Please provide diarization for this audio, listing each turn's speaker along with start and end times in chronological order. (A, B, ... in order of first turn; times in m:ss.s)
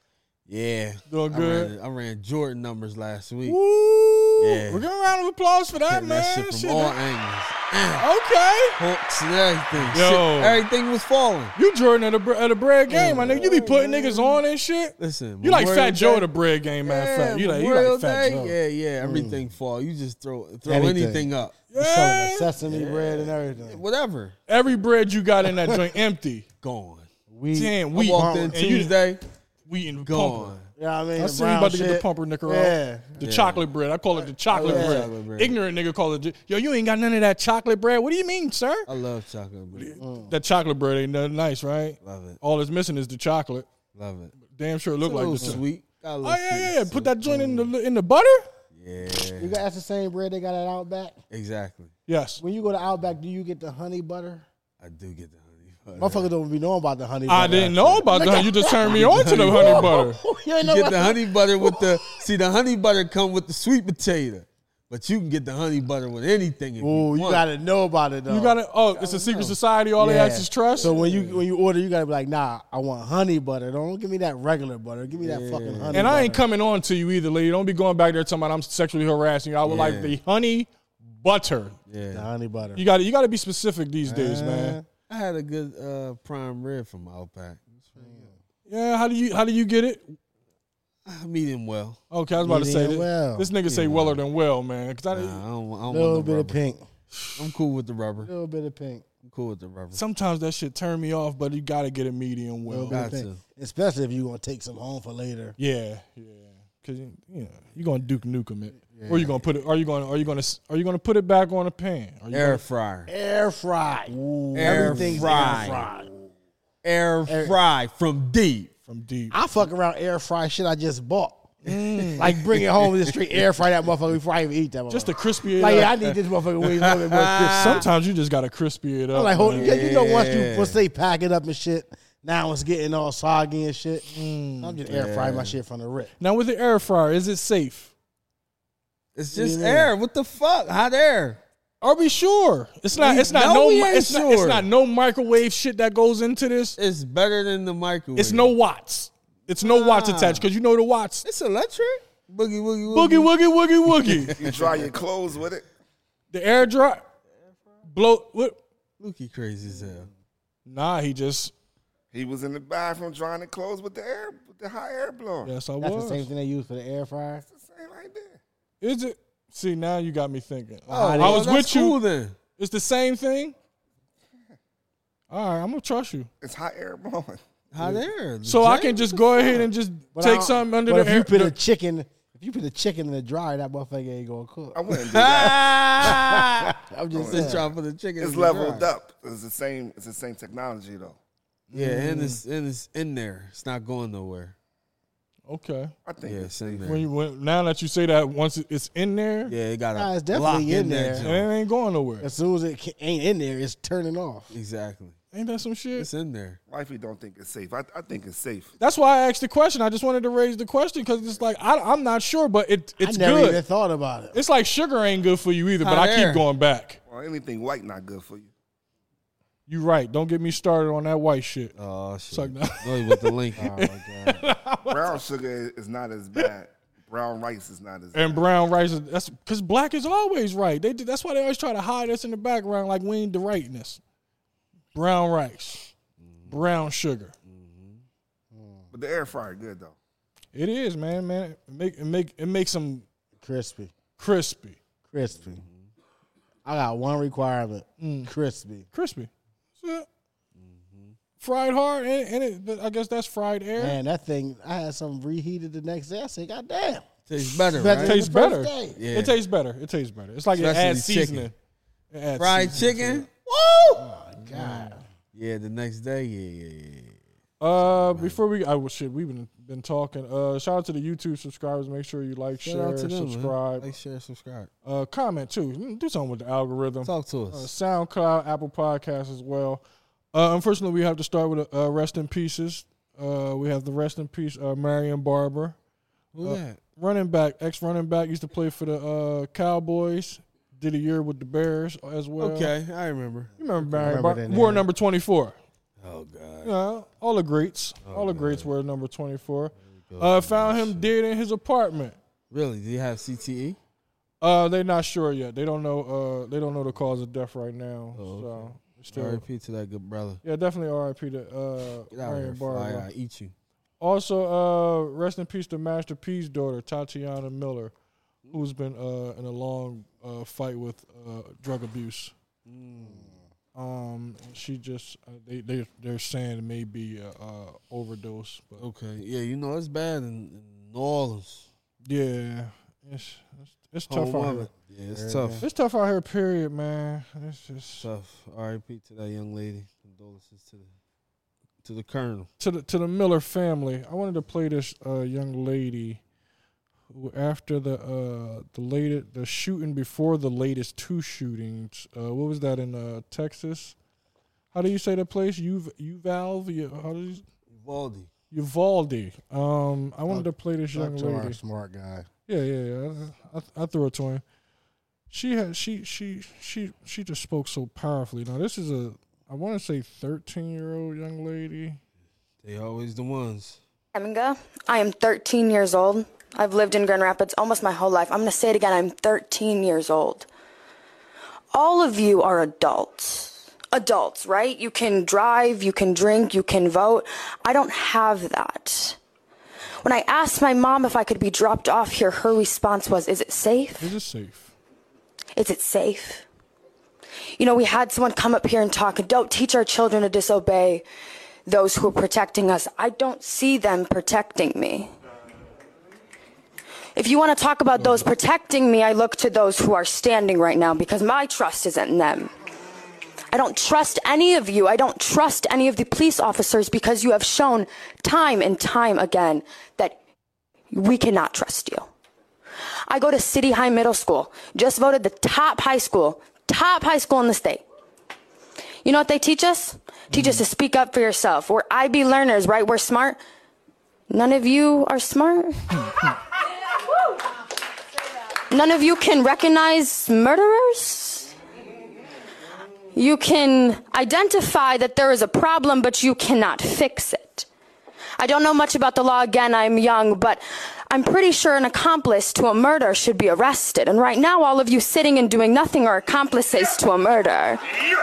0:00.5-0:03.6 A
0:01.1-0:01.7 B
0:03.4-0:07.0 B
0:04.4-0:04.9 A
0:05.9-0:08.1 A
0:08.0-0:08.8 B
0:08.8-0:11.6 A
0:09.9-0:10.6 B
0:11.6-0:18.6 B
0:12.9-0:14.4 A
0:15.0-0:16.3 A
0:16.8-0:21.6 A
0:19.0-0:19.4 C
0:20.7-0:23.8 C
0:21.7-0:22.5 B
0:22.6-0:24.4 A
0:24.5-0:26.5 B
0:25.5-0:25.8 C
0:26.6-0:27.1 A
0:27.3-0:28.6 C
0:27.5-0:29.0 B
0:27.9-0:29.2 A
0:29.7-0:30.6 B
0:30.0-0:30.7 A
0:30.8-0:33.2 C
0:31.2-0:38.9 B
0:33.2-0:33.7 A
0:34.5-0:35.1 C
0:34.5-0:35.6 A
0:38.9-0:40.0 A
0:39.8-0:43.7 B
0:40.0-0:40.3 C
0:42.0-0:42.4 A
0:43.9-0:44.4 A
0:44.4-0:45.6 B
0:45.0-0:47.6 A
0:46.2-0:48.5 B
0:47.3-0:47.7 C
0:48.7-0:49.6 A
0:49.4-0:51.2 C
0:51.3-0:51.9 A
0:52.1-0:52.4 B
0:52.4-0:54.4 C
0:54.8-0:56.3 A
0:56.0-1:02.0 C
0:57.3-1:00.2 B
0:57.4-1:00.0 A
1:00.6-1:07.4 A
1:06.8-1:08.6 C
1:08.3-1:11.2 B
1:08.9-1:09.6 A
1:10.0-1:16.4 C
1:10.6-1:11.4 A
1:15.2-1:16.2 A
1:15.9-1:21.8 B
1:19.6-1:20.2 A
1:21.9-1:22.3 A
1:22.1-1:22.8 C
1:22.8-1:24.8 B
1:24.0-1:24.8 C
1:25.1-1:28.3 A
1:28.0-1:28.4 C
1:28.7-1:30.2 B
1:31.1-1:32.0 A
1:32.1-1:35.4 B
1:32.4-1:33.5 C
1:33.6-1:34.2 A
1:35.1-1:36.6 A
1:35.9-1:36.9 C
1:37.2-1:37.5 B
1:37.4-1:38.3 A
1:38.2-1:39.0 C
1:39.2-1:40.0 A
1:39.9-1:43.1 B
1:42.7-1:45.6 C
1:42.9-1:43.4 A
1:45.6-1:52.6 B
1:48.9-1:49.4 C
1:52.3-1:53.1 A
1:53.1-1:56.1 C
1:54.5-1:55.9 A
1:54.6-1:55.7 B
1:56.8-1:58.7 A
1:57.3-1:57.6 C
1:58.9-1:59.4 B
1:59.3-2:01.6 C
2:01.6-2:03.5 A
2:01.6-2:02.3 B
2:02.2-2:07.9 C
2:04.9-2:06.1 B
2:06.7-2:07.9 A
2:07.4-2:09.8 B
2:09.1-2:16.1 C
2:09.4-2:10.8 A
2:14.1-2:14.8 B
2:14.9-2:15.6 A
2:16.2-2:17.9 B
2:19.2-2:21.4 A
2:19.3-2:19.9 C
2:21.8-2:26.8 B
2:22.9-2:24.7 A
2:26.8-2:28.6 A
2:28.2-2:31.2 B
2:29.6-2:30.5 A
2:31.2-2:33.3 A
2:32.9-2:34.5 B
2:33.9-2:34.9 A
2:34.3-2:35.7 D
2:36.3-2:37.0 B
2:37.9-2:38.6 B
2:39.0-2:40.1 A
2:40.7-2:41.5 B
2:42.1-2:45.6 D
2:45.4-2:46.3 B
2:45.8-2:47.4 C
2:47.4-2:48.4 D
2:48.8-2:52.0 B
2:50.9-2:52.4 A
2:50.9-2:51.5 C
2:52.6-2:53.6 B
2:55.3-2:56.3 B
2:56.4-2:57.4 D
2:57.7-2:59.7 A
2:58.4-3:01.6 B
3:00.2-3:04.8 C
3:04.8-3:06.1 D
3:04.9-3:06.7 A
3:05.4-3:07.7 C
3:07.1-3:11.2 D
3:07.3-3:08.9 A
3:11.7-3:12.4 B
3:11.7-3:14.6 A
3:15.5-3:15.9 B
3:16.1-3:17.0 D
3:16.2-3:17.1 A
3:16.8-3:19.6 B
3:19.5-3:21.5 A
3:20.0-3:21.3 C
3:21.2-3:22.3 B
3:22.2-3:24.5 C
3:24.5-3:25.2 A
3:25.3-3:26.1 B
3:26.0-3:26.6 A
3:26.7-3:28.8 D
3:28.8-3:33.6 B
3:33.0-3:34.4 C
3:34.3-3:37.0 B
3:35.8-3:36.5 A
3:37.1-3:38.5 D
3:39.7-3:41.7 B
3:41.8-3:43.7 A
3:42.3-3:45.2 B
3:43.6-3:44.5 C
3:44.9-3:48.5 D
3:48.1-3:54.0 B
3:54.9-3:55.9 B
3:56.2-3:56.6 A
3:56.5-3:57.3 B
3:57.4-3:58.0 A
3:58.5-3:58.9 C
3:58.9-4:00.0 D
4:00.5-4:03.1 B
4:03.4-4:03.9 C
4:04.2-4:04.8 B
4:05.0-4:05.6 C
4:05.5-4:05.9 A
4:06.6-4:08.9 C
4:08.0-4:08.3 B
4:08.9-4:10.1 B
4:10.6-4:11.2 A
4:11.4-4:14.0 B
4:13.8-4:17.1 C
4:17.3-4:18.2 A
4:17.5-4:21.6 B
4:17.7-4:19.0 C
4:19.0-4:19.4 A
4:20.6-4:21.5 A
4:22.1-4:23.3 B
4:22.4-4:24.1 A
4:24.0-4:25.0 C
4:24.4-4:25.0 B
4:25.3-4:27.2 A
4:27.6-4:33.9 B
4:27.8-4:28.4 A
4:32.6-4:34.7 A
4:34.8-4:45.8 B
4:37.0-4:37.7 A
4:46.3-4:46.8 A
4:46.4-4:52.7 B
4:52.4-4:53.5 A
4:53.6-4:55.6 B
4:53.8-4:54.9 C
4:56.0-4:56.7 A
4:56.6-5:02.2 B
4:58.0-4:58.7 A
4:59.9-5:01.1 A
5:02.5-5:03.8 A
5:04.4-5:09.4 B
5:08.2-5:10.4 A
5:10.4-5:13.1 B
5:12.1-5:13.6 A
5:14.0-5:17.9 B
5:18.5-5:22.3 B
5:22.7-5:23.4 A
5:23.0-5:23.5 C
5:23.8-5:28.8 B
5:28.8-5:31.7 A
5:32.0-5:34.7 B
5:34.1-5:35.7 A
5:35.1-5:35.6 C
5:35.6-5:38.1 B
5:38.0-5:40.9 A
5:41.8-5:42.5 A
5:42.6-5:46.2 B
5:47.1-5:54.0 B
5:54.7-5:57.4 B
5:57.7-5:58.3 A
5:58.5-6:01.6 B
6:00.3-6:02.3 C
6:02.5-6:04.4 B
6:05.3-6:12.0 B
6:12.6-6:13.8 A
6:14.2-6:20.5 E
6:21.7-6:29.2 E
6:30.0-6:34.1 E
6:34.0-6:34.7 B
6:35.6-6:36.5 E
6:37.6-6:41.0 E
6:41.7-6:45.1 E
6:47.2-6:52.5 E
6:53.5-7:00.2 E
7:00.9-7:02.1 E
7:03.1-7:07.8 E
7:09.0-7:13.4 E
7:10.3-7:10.6 B
7:14.3-7:16.3 E
7:15.9-7:16.3 B
7:18.7-7:21.5 E
7:23.2-7:27.7 E
7:28.4-7:37.8 E